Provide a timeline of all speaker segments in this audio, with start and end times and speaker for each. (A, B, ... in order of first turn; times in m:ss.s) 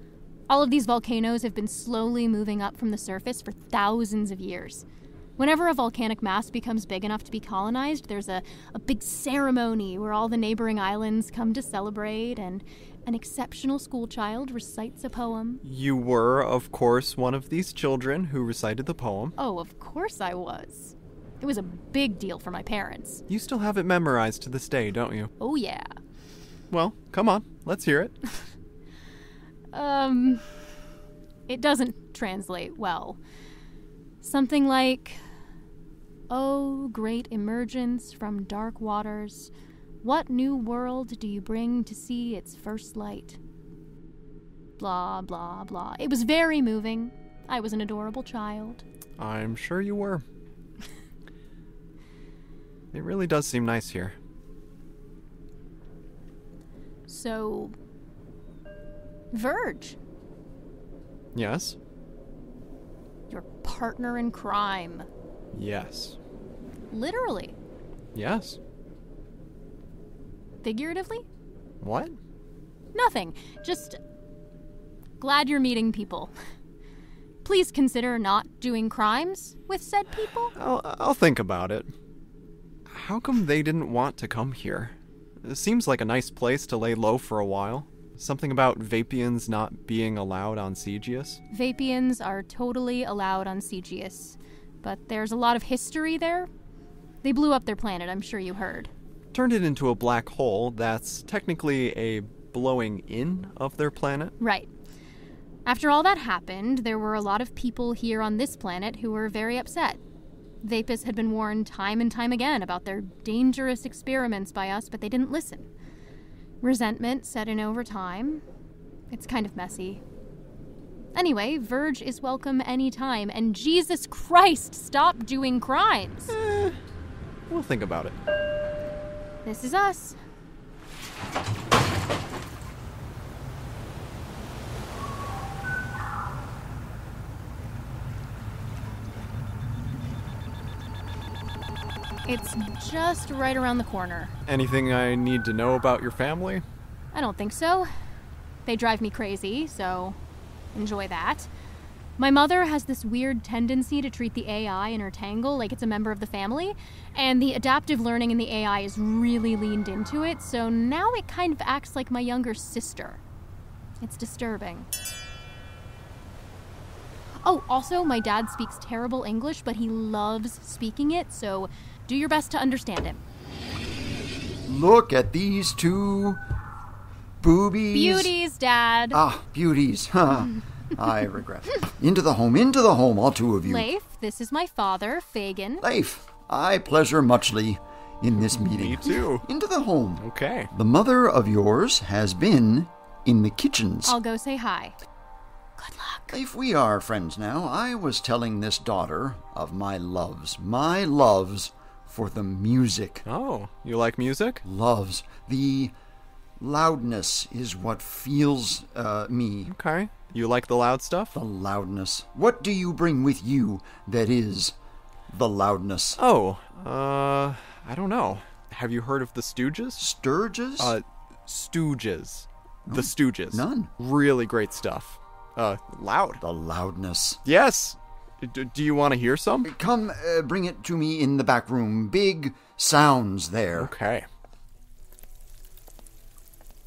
0:00.5-0:04.8 A
0:05.4-0:15.6 A
0:15.6-0:19.3 B
0:19.4-0:23.2 A
0:23.3-0:25.3 B
0:25.4-0:25.9 A
0:26.7-0:28.1 B
0:29.7-0:30.4 A
0:31.5-0:33.2 A
0:34.2-0:35.2 A
0:36.3-0:39.5 A
0:40.0-0:43.4 A
0:44.8-0:48.8 A
0:49.2-0:50.2 B
0:52.9-0:54.1 B
0:57.1-0:57.7 A
0:59.3-1:00.0 A
1:01.3-1:01.8 B
1:03.3-1:05.1 A
1:05.5-1:06.2 B
1:06.9-1:07.5 A
1:08.1-1:08.6 B
1:10.6-1:11.2 A
1:11.8-1:12.2 B
1:12.9-1:14.0 A
1:15.2-1:16.3 A
1:17.4-1:20.5 A
1:20.6-1:21.9 B
1:22.9-1:31.4 B
1:31.5-1:36.5 A
1:37.2-1:38.9 A
1:39.3-1:44.3 B
1:44.4-1:44.7 A
1:45.6-1:50.0 A
1:50.6-1:55.7 A
1:56.6-1:58.4 A
1:59.1-2:00.0 A
2:01.1-2:06.3 A
2:06.3-2:06.8 B
2:07.5-2:08.2 B
2:09.4-2:10.2 A
2:22.3-2:24.3 A
2:24.5-2:26.6 B
2:27.1-2:27.9 A
2:28.6-2:30.2 A
2:30.7-2:31.5 A
2:32.2-2:43.2 A
2:44.0-2:44.9 A
2:47.4-2:53.2 A
2:54.6-2:56.4 C
2:57.4-2:58.3 C
2:57.9-2:59.2 A
2:59.1-3:03.9 C
3:03.6-3:05.8 A
3:05.8-3:14.2 C
3:08.4-3:09.4 B
3:10.2-3:10.7 B
3:14.0-3:15.0 A
3:15.8-3:16.3 A
3:16.3-3:23.2 C
3:23.2-3:24.6 B
3:24.6-3:25.9 C
3:26.6-3:29.7 C
3:29.7-3:31.4 B
3:31.3-3:34.7 C
3:35.3-3:36.2 C
3:36.2-3:40.0 B
3:40.0-3:41.0 C
3:40.8-3:46.4 B
3:42.8-3:43.9 C
3:46.4-3:47.4 C
3:47.4-3:49.7 B
3:49.6-3:53.9 C
3:53.8-3:54.2 B